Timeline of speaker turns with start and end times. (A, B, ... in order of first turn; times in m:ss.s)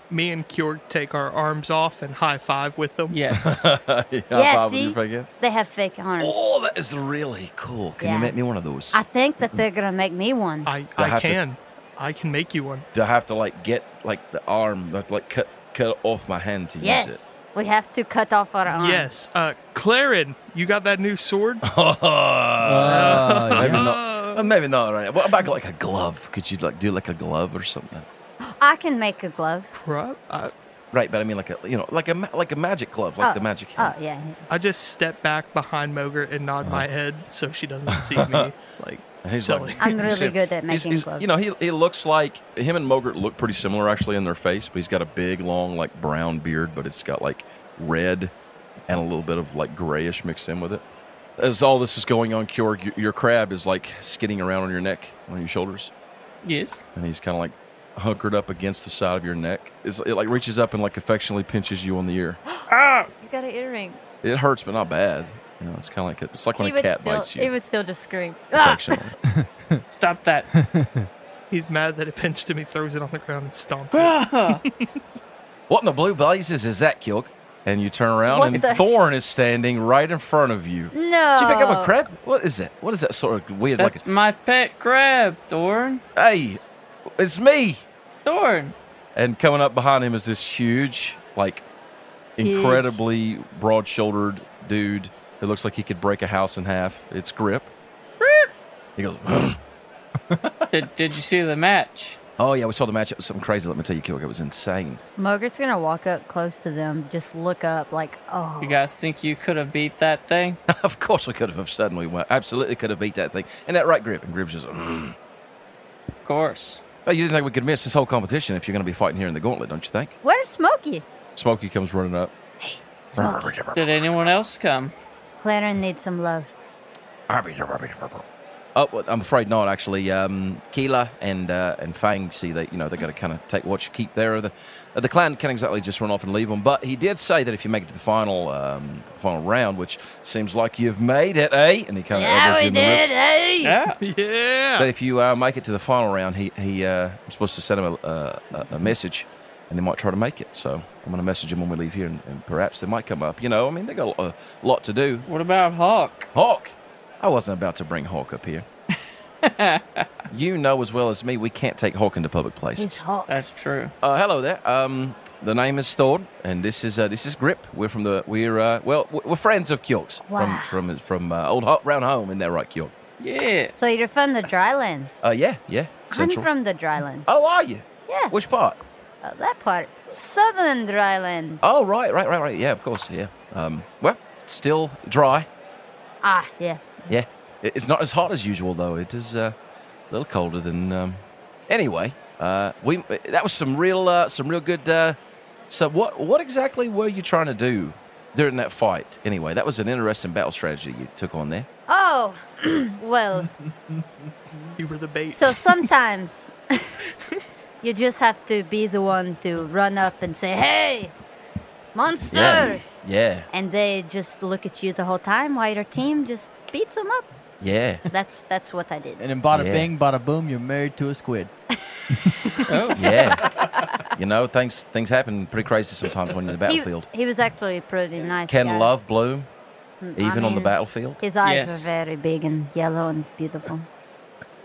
0:00.1-0:03.2 A
0:03.1-0:03.7 B
0:03.3-0:05.3 C
0:04.3-0:06.4 D
0:06.2-0:09.0 C
0:08.0-0:08.4 D
0:08.9-0:10.7 D
0:10.6-0:12.9 A
0:11.0-0:11.4 C
0:12.9-0:17.2 C
0:16.8-0:19.1 D
0:18.7-0:21.6 A
0:21.6-0:28.1 C
0:22.6-0:23.9 E
0:22.8-0:24.4 A
0:28.4-0:29.7 D
0:29.7-0:30.5 A
0:30.9-0:33.9 C
0:33.2-0:34.4 D
0:34.5-0:40.0 A
0:36.6-0:36.9 C
0:37.9-0:38.5 C
0:39.2-0:48.3 C
0:39.8-0:41.4 D
0:48.9-0:50.8 C
0:51.4-0:55.9 C
0:56.4-0:56.8 B
0:57.0-1:02.4 C
1:02.7-1:03.1 B
1:03.2-1:04.0 D
1:04.2-1:07.5 C
1:06.6-1:09.0 D
1:08.5-1:09.2 C
1:09.3-1:09.8 E
1:09.9-1:10.5 B
1:10.5-1:11.1 E
1:11.5-1:14.8 A
1:13.9-1:14.6 B
1:15.7-1:24.0 C
1:18.3-1:18.8 D
1:20.9-1:21.9 D
1:23.8-1:26.0 B
1:26.1-1:27.8 C
1:28.2-1:28.7 B
1:29.1-1:31.6 C
1:32.4-1:37.7 C
1:32.4-1:33.0 D
1:38.2-1:38.5 B
1:39.0-1:39.6 C
1:40.3-1:40.6 C
1:40.7-1:42.2 B
1:42.4-1:45.0 C
1:45.2-1:48.8 D
1:48.6-1:50.6 B
1:50.7-1:55.2 C
1:56.2-1:56.8 B
1:57.0-2:00.2 C
2:00.2-2:01.0 D
2:01.3-2:02.3 C
2:02.6-2:03.5 D
2:03.1-2:04.0 C
2:03.7-2:04.9 B
2:05.4-2:06.6 D
2:07.3-2:23.1 C
2:22.1-2:23.8 D
2:23.6-2:24.0 B
2:24.0-2:24.9 A
2:24.8-2:35.3 C
2:35.3-2:36.3 B
2:36.3-2:38.6 C
2:39.4-2:40.1 B
2:40.3-2:43.0 C
2:42.8-2:43.4 D
2:43.3-2:43.9 B
2:44.0-2:52.9 C
2:50.3-2:50.8 D
2:53.2-2:53.7 B
2:53.7-2:55.2 D
2:55.2-2:56.5 C
2:56.1-2:57.3 D
2:57.2-2:58.8 C
2:58.1-2:58.3 D
2:59.2-3:01.7 D
3:01.6-3:05.5 C
3:06.2-3:07.1 D
3:07.1-3:09.5 C
3:10.1-3:15.2 C
3:15.7-3:21.7 C
3:21.9-3:23.5 D
3:24.8-3:25.7 A
3:25.2-3:27.0 D
3:27.8-3:31.1 D
3:31.9-3:32.8 D
3:32.3-3:33.5 C
3:33.5-3:37.3 D
3:37.6-3:38.0 C
3:38.1-3:39.2 D
3:39.2-3:41.5 E
3:39.5-3:39.9 C
3:42.1-3:42.6 E
3:42.6-3:43.3 B
3:42.9-3:43.5 C
3:44.0-3:47.1 C
3:46.6-3:48.9 D
3:48.5-3:49.5 C
3:50.0-3:53.9 D
3:50.2-3:51.2 C
3:51.4-3:51.9 B